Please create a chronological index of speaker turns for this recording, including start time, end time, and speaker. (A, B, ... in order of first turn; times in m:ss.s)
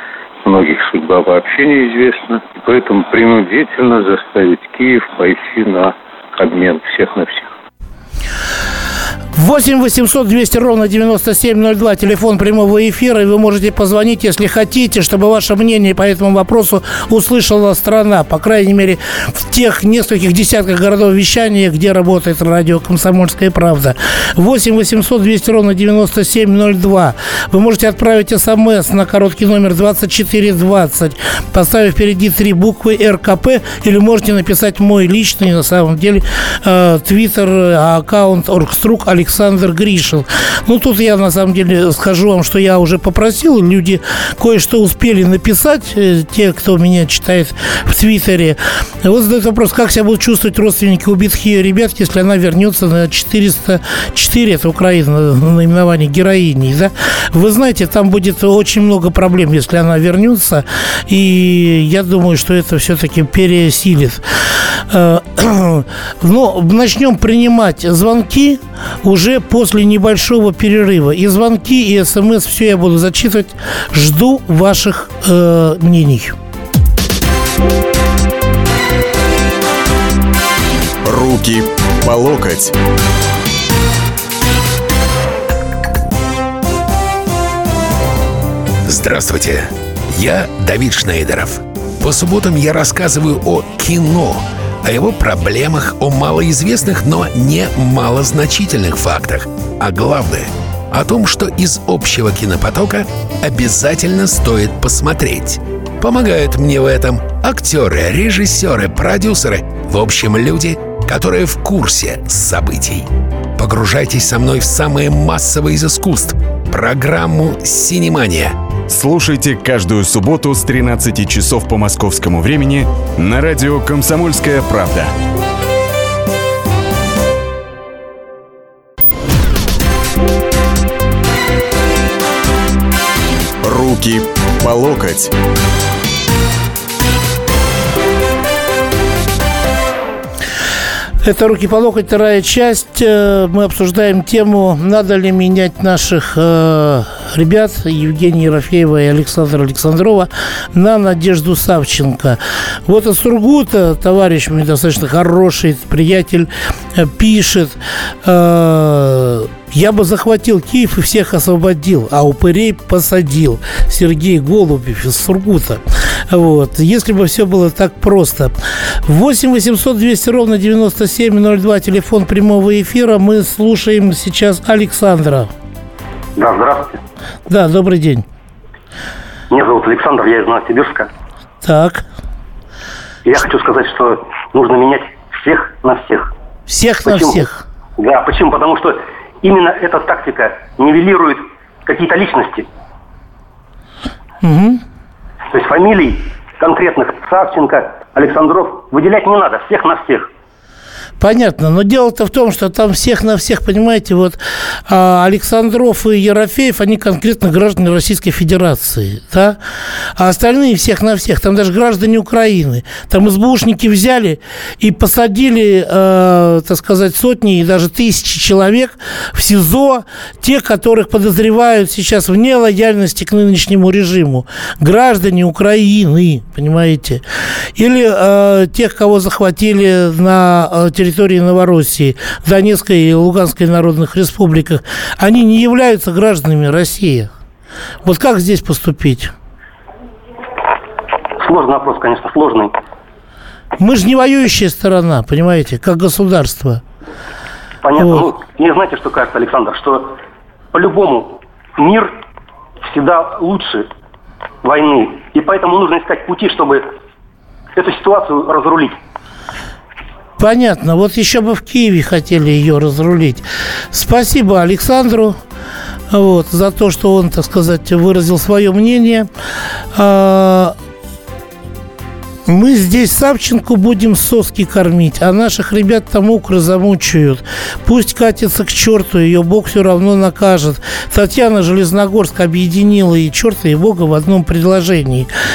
0:00.4-0:07.5 A
0:09.4-1:16.4 B
1:21.0-1:22.8 C
1:28.9-1:58.6 D
2:04.5-2:04.8 C
2:13.6-2:15.3 C
2:21.2-2:48.5 B
2:49.1-2:55.5 B
2:56.4-2:57.0 E
2:57.5-2:58.3 B
2:59.5-3:01.1 E
3:01.6-3:02.0 B
3:03.2-3:06.3 E
3:06.7-3:07.6 B
3:07.0-3:07.5 E
3:08.0-3:12.7 E
3:14.4-3:14.8 B
3:15.5-3:20.3 E
3:21.2-3:29.6 B
3:30.2-3:47.2 B
3:47.8-3:57.3 B
3:58.0-3:59.3 B
4:01.4-4:02.8 E
4:03.8-4:06.8 B
4:07.8-4:10.2 E
4:08.0-4:08.3 B
4:10.7-4:12.1 E
4:12.8-4:13.9 E
4:14.6-4:16.9 E
4:17.8-4:19.0 E
4:20.4-4:25.4 B
4:26.1-4:29.3 B
4:29.9-4:30.8 B
4:32.5-4:45.3 B